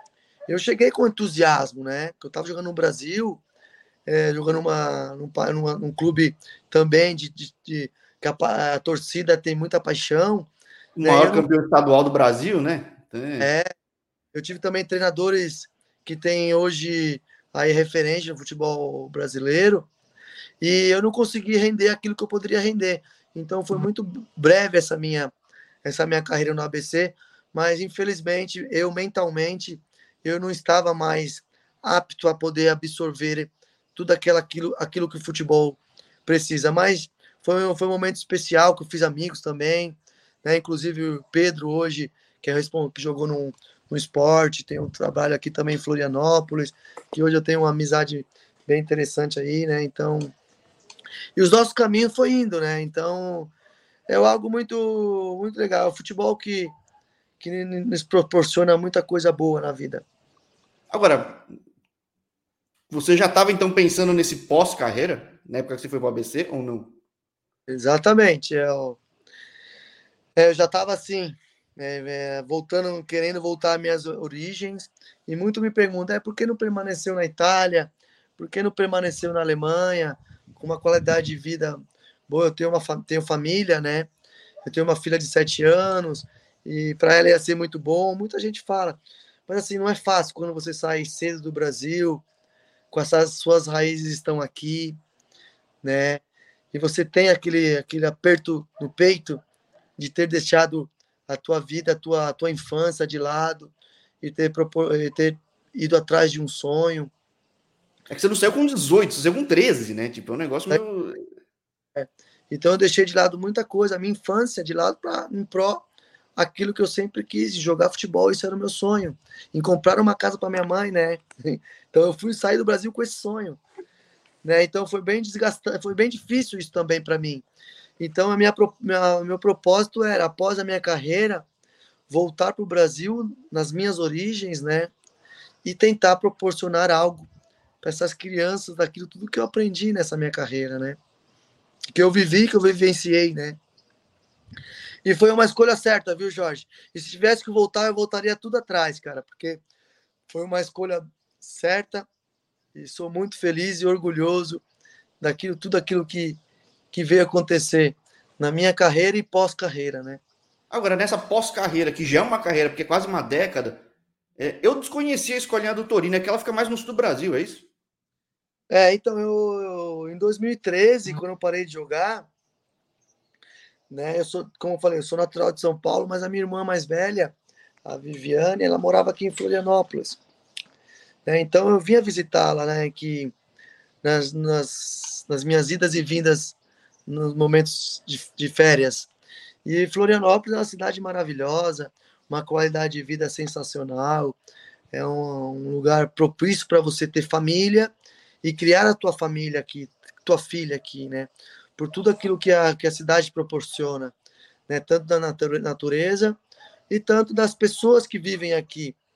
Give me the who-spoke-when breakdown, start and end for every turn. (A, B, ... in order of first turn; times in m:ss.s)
0:00.5-0:03.4 A
0:04.1-0:10.5 A
0:11.0-0:13.5 B
0:11.0-0:11.5 A
0:13.4-0:13.7 A
0:14.3-0:19.9 A
0:20.6-0:25.3 A
0:25.8-0:50.3 A
0:51.4-0:53.5 A
0:54.1-0:56.7 A
0:57.4-1:00.0 A
1:00.9-1:01.5 B
1:02.9-1:06.9 B
1:07.7-1:09.0 A
1:10.4-1:24.1 A
1:24.6-1:32.2 A
1:32.9-1:35.0 A
1:35.8-1:36.2 A
1:36.7-1:39.4 A
1:40.0-1:47.1 A
1:48.1-1:51.2 B
1:52.0-1:55.8 A
1:56.4-2:03.6 A
2:04.4-2:07.4 A
2:08.0-2:11.4 A
2:12.1-2:14.9 A
2:15.6-2:17.3 A
2:17.8-2:21.0 A
2:21.9-2:23.6 A
2:25.0-2:29.6 A
2:30.3-2:32.1 A
2:32.7-2:34.6 A
2:35.2-2:36.4 A
2:36.9-2:40.2 A
2:40.7-2:43.8 B
2:44.4-2:47.7 B
2:48.7-2:52.3 A
2:53.9-2:57.3 A
2:57.8-3:00.2 A
3:01.2-3:03.3 A
3:04.0-3:09.1 A
3:09.6-3:14.4 A
3:14.9-3:17.9 A
3:18.4-3:24.1 A
3:24.7-3:26.4 A
3:26.9-3:29.0 A